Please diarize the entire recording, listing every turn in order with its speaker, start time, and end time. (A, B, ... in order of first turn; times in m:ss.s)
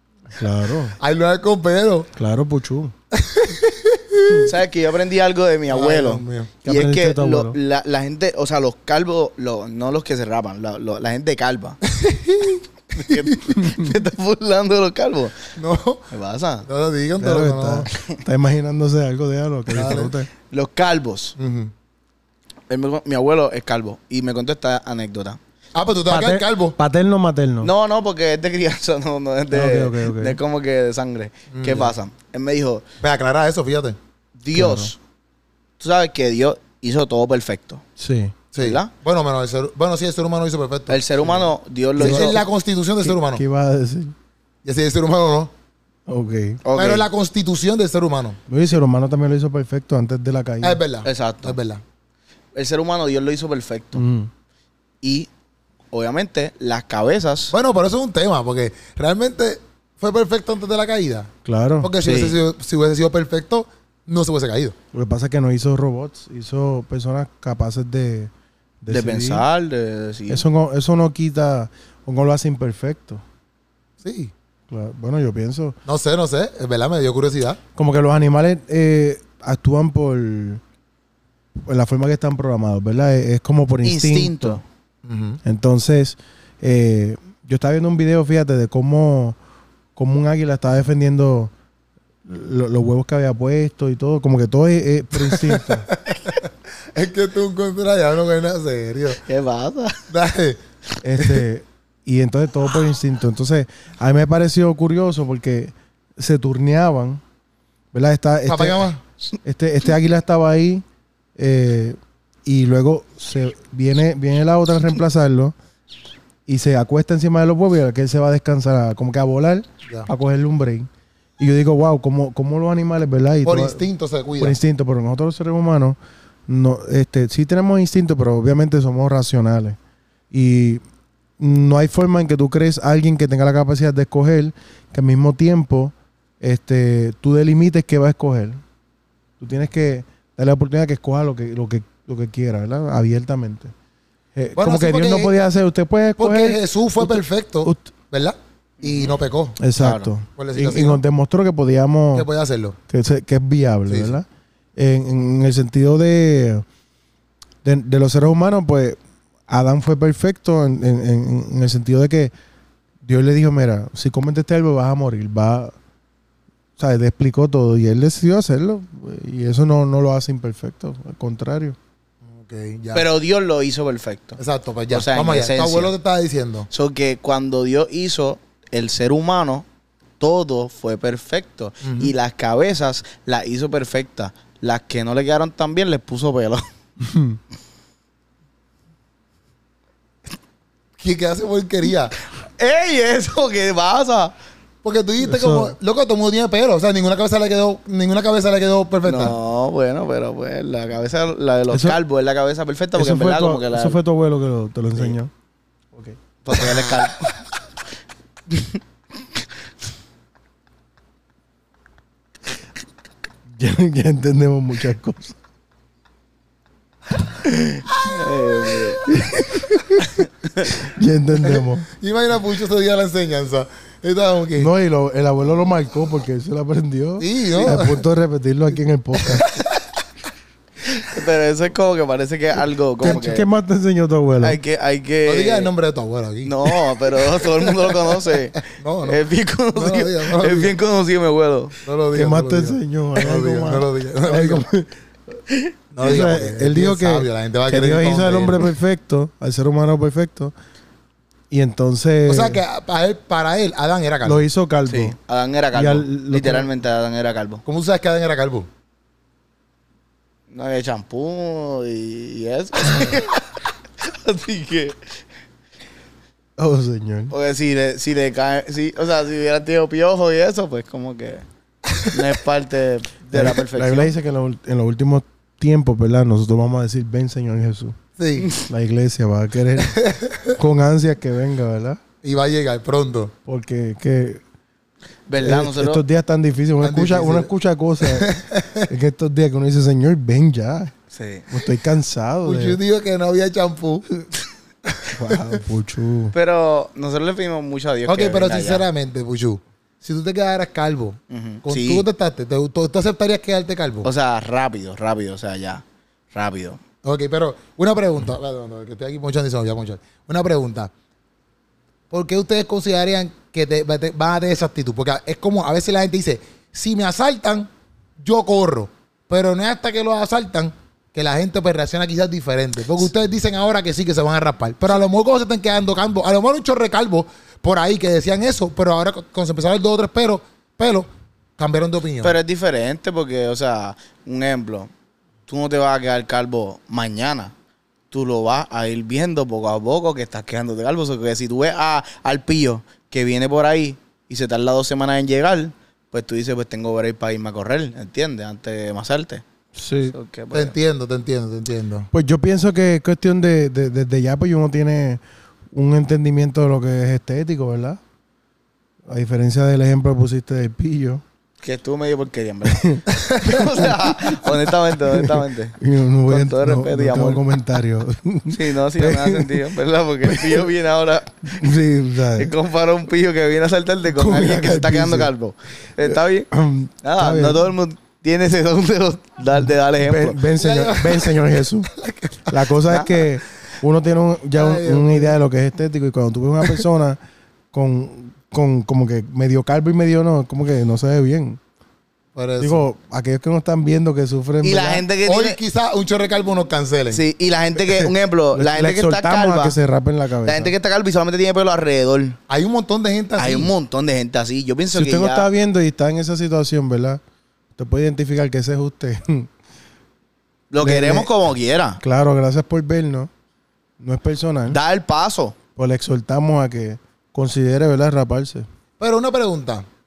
0:00.3-0:01.0 A
0:01.0-0:02.1 B
0:02.2-0:02.9 A
0:03.1-0:04.5 B
0:04.4-0:11.8 C
0:05.7-0:06.5 B
0:06.6-0:07.6 A
0:11.9-0:13.4 B
0:12.9-0:15.3 C
0:13.6-0:13.9 A
0:15.6-0:16.1 B
0:16.1-0:16.7 C
0:16.7-0:17.9 B
0:17.2-0:20.3 A
0:19.7-0:20.1 B
0:20.5-0:21.3 C
0:21.4-0:21.7 B
0:22.7-0:25.4 C
0:25.7-0:26.8 B
0:26.1-0:27.7 A
0:27.6-0:32.8 C
0:29.5-0:30.4 A
0:31.5-0:31.9 B
0:33.0-0:34.0 B
0:34.4-0:35.0 C
0:34.5-0:34.9 A
0:35.8-0:37.8 C
0:38.0-0:38.3 A
0:38.5-0:41.4 B
0:38.6-0:38.9 C
0:40.9-0:42.4 C
0:42.0-0:42.4 A
0:42.0-0:43.4 B
0:43.0-0:44.1 A
0:44.6-0:45.5 B
0:46.1-0:46.6 A
0:46.6-0:47.0 C
0:46.8-0:48.4 B
0:48.5-0:50.8 A
0:50.6-0:51.8 B
0:51.0-0:51.6 C
0:52.5-0:54.0 C
0:53.9-0:54.3 A
0:55.0-0:55.3 C
0:55.9-0:57.5 C
0:57.5-1:01.3 B
1:01.4-1:01.9 A
1:01.8-1:04.7 B
1:02.0-1:02.4 C
1:04.9-1:09.4 A
1:08.9-1:10.4 C
1:10.3-1:13.2 A
1:14.0-1:14.3 B
1:14.7-1:15.8 A
1:15.8-1:17.6 B
1:17.8-1:20.6 A
1:21.6-1:24.6 A
1:23.8-1:24.6 C
1:25.0-1:25.4 B
1:25.4-1:29.4 A
1:30.0-1:31.5 A
1:32.2-1:35.9 A
1:35.2-1:39.2 B
1:39.2-1:40.0 C
1:40.1-1:40.6 B
1:41.0-1:47.2 A
1:41.2-1:41.4 B
1:47.9-1:48.9 A
1:48.5-1:49.0 B
1:49.4-1:50.8 A
1:51.4-1:55.5 A
1:56.5-2:03.8 A
2:03.4-2:04.6 B
2:04.4-2:09.8 A
2:10.3-2:10.8 A
2:11.4-2:18.6 A
2:19.4-2:23.7 A
2:24.3-2:27.9 A
2:24.6-2:25.3 B
2:26.2-2:29.6 B
2:28.8-2:29.1 C
2:29.6-2:32.3 A
2:29.8-2:30.1 C
2:30.4-2:31.0 B
2:32.1-2:32.8 B
2:32.9-2:36.6 A
2:33.9-2:34.2 B
2:37.6-2:42.3 A
2:43.0-2:45.7 A
2:46.8-2:51.8 A
2:52.3-2:53.0 B
2:52.9-2:54.4 C
2:54.4-2:56.7 B
2:54.9-2:55.9 C
2:56.7-2:59.6 C
3:00.2-3:06.6 C
3:01.8-3:02.1 B
3:07.0-3:07.4 A
3:11.0-3:12.1 B
3:12.6-3:14.3 C
3:14.8-3:19.3 B
3:15.2-3:15.7 A
3:19.0-3:24.0 C
3:21.7-3:22.0 A
3:22.9-3:25.3 A
3:25.9-3:26.8 A
3:26.4-3:27.3 C
3:28.5-3:28.8 C
3:33.6-3:35.4 A
3:38.0-3:39.1 C
3:39.1-3:40.1 A
3:40.2-3:40.7 C
3:40.6-3:41.9 A
3:41.4-3:44.7 B
3:44.6-3:49.5 A
3:47.2-3:48.0 B
3:49.2-3:49.7 B
3:50.9-3:53.4 C
3:53.0-3:54.6 A
3:54.4-3:55.7 C
3:55.2-3:59.2 B
3:56.4-4:01.7 C
3:59.7-4:00.7 B
4:01.8-4:04.7 B
4:02.1-4:04.9 A
4:05.9-4:08.7 B
4:06.0-4:10.5 A
4:11.5-4:12.6 A
4:12.3-4:14.4 B
4:14.2-4:15.2 A
4:14.9-4:17.6 C
4:15.7-4:16.7 A
4:17.6-4:18.7 B
4:20.5-4:23.4 C
4:24.0-4:25.0 C
4:26.6-4:27.3 A
4:27.3-4:31.4 C
4:32.0-4:34.1 C
4:33.3-4:38.0 A
4:38.2-4:38.5 B
4:38.6-4:40.0 A
4:39.9-4:40.6 B
4:40.5-4:42.0 A
4:42.2-4:43.3 B
4:43.4-4:44.4 A
4:45.3-4:46.0 C
4:45.4-4:48.3 A
4:46.8-4:47.5 B
4:48.0-4:48.9 B
4:48.9-4:50.9 A
4:51.1-4:51.5 C
4:51.5-4:52.8 A
4:52.4-4:54.1 B
4:54.9-4:55.3 B
4:55.1-4:56.3 A
4:56.3-4:58.8 C
4:58.1-5:04.1 B
5:01.3-5:02.0 C
5:04.0-5:06.8 C
5:07.0-5:10.9 B
5:12.1-5:17.7 B
5:18.2-5:32.4 B
5:32.2-5:34.9 C
5:35.5-5:37.5 C
5:38.1-5:49.4 C
5:49.8-5:50.1 A
5:50.0-5:50.7 C
5:50.5-5:52.1 B
5:52.1-5:55.2 A
5:55.7-5:58.0 A
5:59.0-6:01.2 A
6:01.6-6:07.4 C
6:02.6-6:03.0 A
6:03.6-6:09.6 A
6:08.5-6:11.6 C
6:10.2-6:10.7 A
6:11.4-6:12.5 A
6:12.4-6:16.5 C
6:14.1-6:15.3 A
6:16.0-6:17.7 A
6:17.0-6:20.4 C
6:19.6-6:21.9 A
6:20.6-6:22.6 B
6:22.5-6:27.2 A
6:22.9-6:23.1 C
6:24.5-6:25.4 B
6:27.7-6:31.6 A
6:32.3-6:32.8 B
6:32.6-6:35.0 A
6:34.6-6:35.6 C
6:35.2-6:37.2 B
6:37.1-6:39.8 C
6:37.9-6:40.7 A
6:40.4-6:42.4 C
6:42.5-6:43.7 B
6:43.4-6:45.5 C
6:44.9-6:47.2 A
6:47.8-6:49.5 A
6:50.7-6:52.0 C
6:50.8-6:51.3 A
6:52.0-6:53.3 A
6:54.0-6:54.8 A
6:54.7-6:55.6 C
6:55.8-6:58.7 A
6:59.0-6:59.8 B